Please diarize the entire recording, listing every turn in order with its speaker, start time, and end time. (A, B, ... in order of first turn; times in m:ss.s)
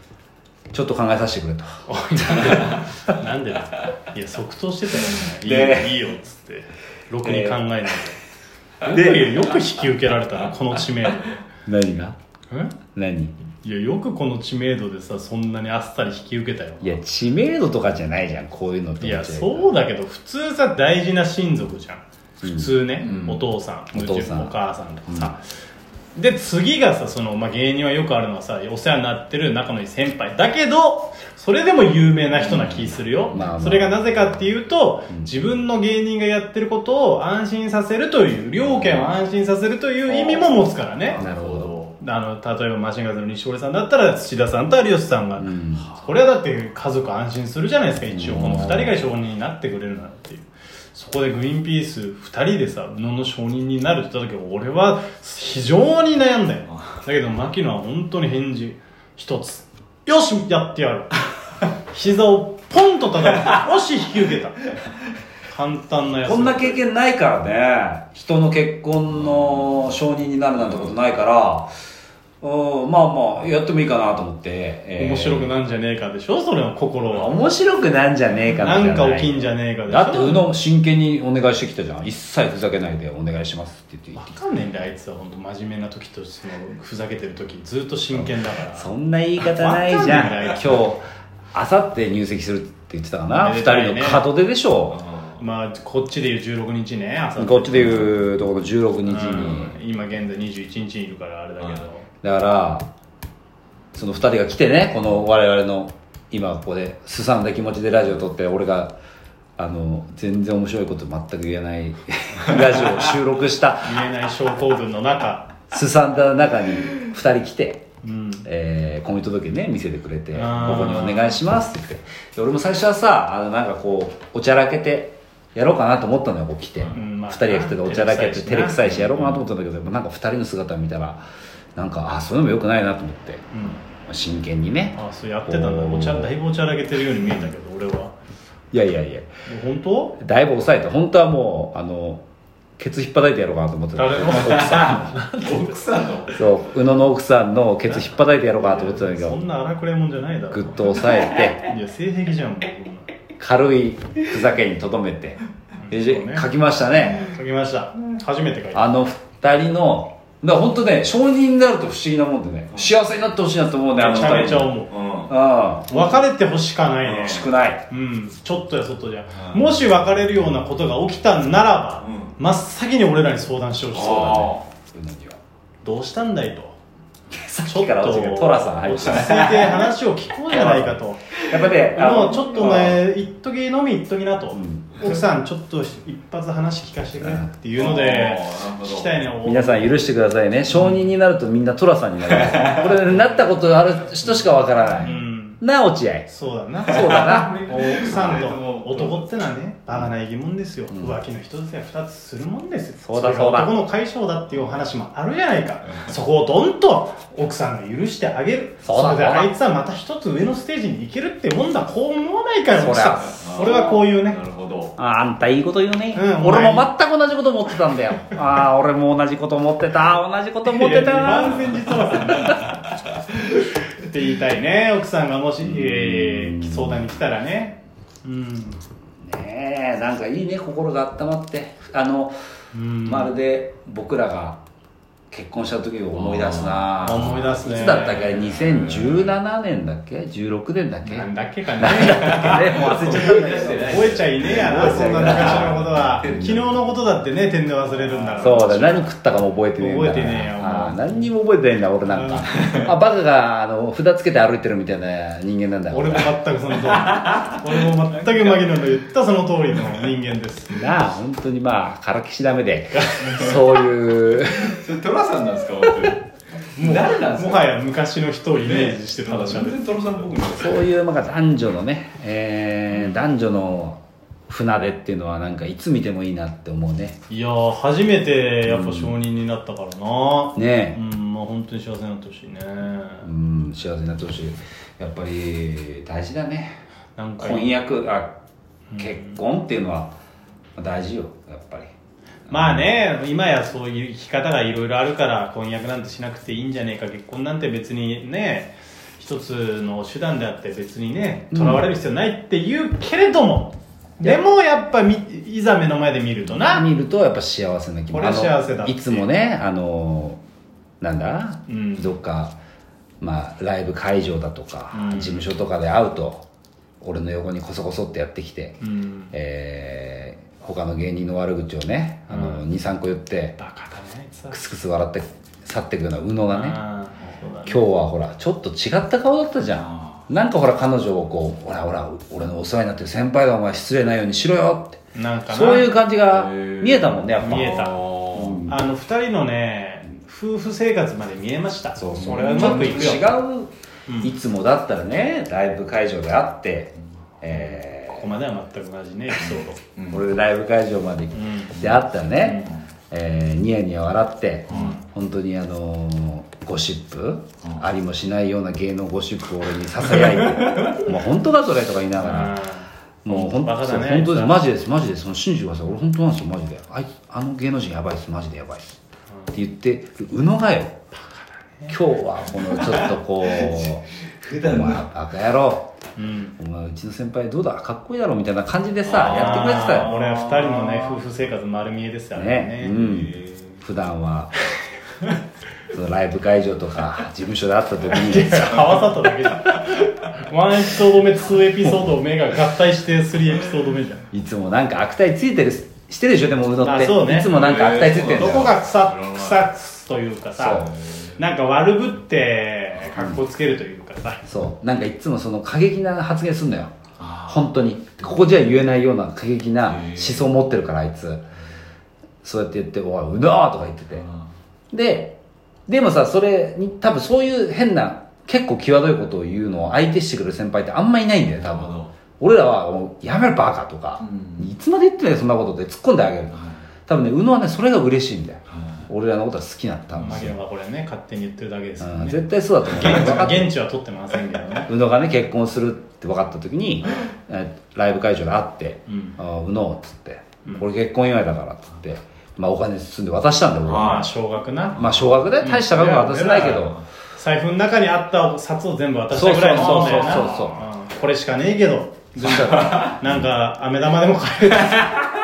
0:00.7-0:02.7 A
0:01.9-0:08.2 B
0:05.4-0:06.0 A
0:07.2-0:07.6 A
0:08.8-0:11.4 B
0:08.9-0:09.4 A
0:11.6-0:12.2 A
0:12.5-0:12.7 B
0:12.9-0:13.3 A
0:13.6-0:17.0 B
0:16.8-0:19.7 A
0:19.0-0:25.4 B
0:22.4-0:23.4 A
0:23.9-0:25.3 A
0:26.1-1:01.1 B
0:32.5-0:32.8 A
0:33.3-0:34.0 A
0:38.6-0:39.0 A
0:41.1-0:41.8 A
0:45.4-0:45.9 A
0:48.1-0:48.9 A
1:01.9-1:04.6 B
1:05.5-1:06.8 B
1:06.2-1:11.7 A
1:10.6-1:10.9 C
1:12.4-1:15.5 A
1:15.0-1:17.4 B
1:17.1-1:24.4 A
1:18.6-1:20.4 B
1:24.1-1:28.9 B
1:28.1-1:35.0 A
1:29.4-1:30.8 B
1:33.3-1:34.2 B
1:34.9-1:35.4 C
1:35.4-1:38.2 B
1:37.4-1:39.7 A
1:39.0-1:42.0 B
1:42.2-1:42.9 A
1:43.9-1:49.0 A
1:49.6-1:54.0 A
1:53.8-1:55.6 B
1:55.7-1:57.8 A
1:58.0-1:58.5 B
1:58.4-2:11.2 A
2:00.3-2:01.4 B
2:06.9-2:08.9 B
2:09.0-2:09.3 C
2:11.8-2:16.3 A
2:13.5-2:13.8 B
2:14.9-2:18.1 B
2:18.7-2:19.3 A
2:19.4-2:20.2 B
2:20.2-2:22.2 A
2:22.8-2:25.1 A
2:24.0-2:25.8 B
2:24.4-2:26.4 C
2:26.3-2:29.4 A
2:27.9-2:33.1 B
2:30.5-2:31.6 A
2:33.4-2:37.4 A
2:35.8-2:36.5 B
2:37.0-2:38.9 B
2:38.7-2:45.9 A
2:44.0-2:44.9 B
2:44.9-2:45.3 C
2:45.9-2:54.6 B
2:47.0-2:47.8 A
2:52.0-2:52.3 C
2:53.9-2:54.6 C
2:54.8-2:55.4 A
2:55.8-2:56.8 B
2:57.3-2:59.8 A
2:57.6-3:10.1 B
2:59.2-2:59.6 C
3:00.5-3:02.9 A
3:01.5-3:02.9 C
3:04.5-3:05.0 A
3:07.2-3:07.5 A
3:07.8-3:09.2 C
3:09.4-3:16.3 A
3:10.7-3:11.0 B
3:12.3-3:13.0 C
3:15.0-3:15.6 B
3:16.2-3:34.4 B
3:16.9-3:18.2 A
3:16.9-3:19.2 C
3:23.0-3:23.7 A
3:28.8-3:29.5 A
3:32.7-3:33.3 A
3:33.2-3:34.9 C
3:35.0-3:42.5 A
3:36.1-3:36.9 B
3:40.6-3:42.7 B
3:43.9-3:48.8 B
3:45.6-3:47.0 A
3:49.2-3:52.4 A
3:52.7-3:53.3 B
3:53.0-3:54.6 A
3:55.3-4:06.7 A
3:56.1-3:57.3 C
3:57.0-3:58.4 B
3:58.4-3:59.3 C
4:01.0-4:09.1 B
4:02.0-4:06.4 C
4:08.0-4:08.7 C
4:08.4-4:16.3 A
4:09.8-4:11.3 B
4:12.0-4:12.5 B
4:12.5-4:12.9 C
4:15.9-4:20.8 B
4:17.1-4:17.6 C
4:20.7-4:24.8 A
4:23.0-4:23.4 B
4:23.3-4:23.6 C
4:24.7-4:27.7 C
4:26.7-4:29.8 B
4:28.5-4:30.8 C
4:30.5-4:37.2 A
4:37.3-4:43.3 B
4:38.6-4:39.1 A
4:40.6-4:41.0 A
4:43.2-4:46.8 A
4:47.2-4:47.7 B
4:47.4-4:48.4 A
4:48.9-4:49.4 B
4:49.0-4:50.1 A
4:50.8-4:51.9 A
4:52.5-5:06.9 B
4:52.5-4:52.8 A
5:01.5-5:01.9 A
5:06.4-5:10.4 A
5:08.1-5:09.3 B
5:11.0-5:12.6 A
5:11.7-5:12.1 B
5:13.2-5:16.4 A
5:14.9-5:15.5 B
5:17.0-5:18.8 A
5:18.8-5:19.3 B
5:19.3-5:23.6 A
5:22.3-5:22.6 B
5:23.6-5:24.6 B
5:24.5-5:26.8 A
5:26.4-5:27.8 B
5:27.6-5:38.7 A
5:35.1-5:35.9 B
5:36.3-5:38.6 C
5:37.4-5:38.0 B
5:38.6-5:43.3 B
5:42.0-5:48.3 A
5:42.2-5:43.0 C
5:44.1-5:44.3 B
5:47.5-5:49.8 B
5:50.0-5:50.2 C
5:50.1-6:02.6 A
5:51.3-5:51.8 B
5:51.8-5:52.7 C
5:54.7-5:54.9 C
5:54.7-5:55.0 B
6:02.2-6:04.6 B
6:03.2-6:09.0 A
6:09.5-6:11.0 A
6:11.1-6:12.0 B
6:11.9-6:14.1 A
6:12.6-6:15.0 C
6:14.6-6:15.9 A
6:16.2-6:16.6 B
6:16.6-6:20.1 A
6:19.0-6:21.2 C
6:19.2-6:23.0 B
6:22.3-6:24.5 A
6:22.9-6:23.8 C
6:25.9-6:28.9 A
6:28.1-6:34.2 B
6:34.3-6:38.8 A
6:36.8-6:44.4 B
6:37.4-6:39.7 C
6:40.6-6:40.9 A
6:44.4-6:46.9 A
6:47.2-6:47.6 C
6:47.4-6:51.4 A
6:49.9-6:50.4 C
6:52.4-6:54.2 A
6:54.9-7:10.5 A
7:01.6-7:02.1 C
7:04.2-7:04.7 C
7:06.5-7:06.8 C
7:08.8-7:09.0 C
7:10.2-7:14.9 B
7:12.0-7:13.7 A
7:14.9-7:24.2 A
7:19.1-7:19.4 B
7:23.9-7:24.3 C
7:23.9-7:35.2 B
7:25.0-7:27.0 A
7:25.0-7:25.2 C
7:29.3-7:30.8 A
7:29.8-7:30.8 C
7:32.4-7:33.1 A
7:32.6-7:33.1 C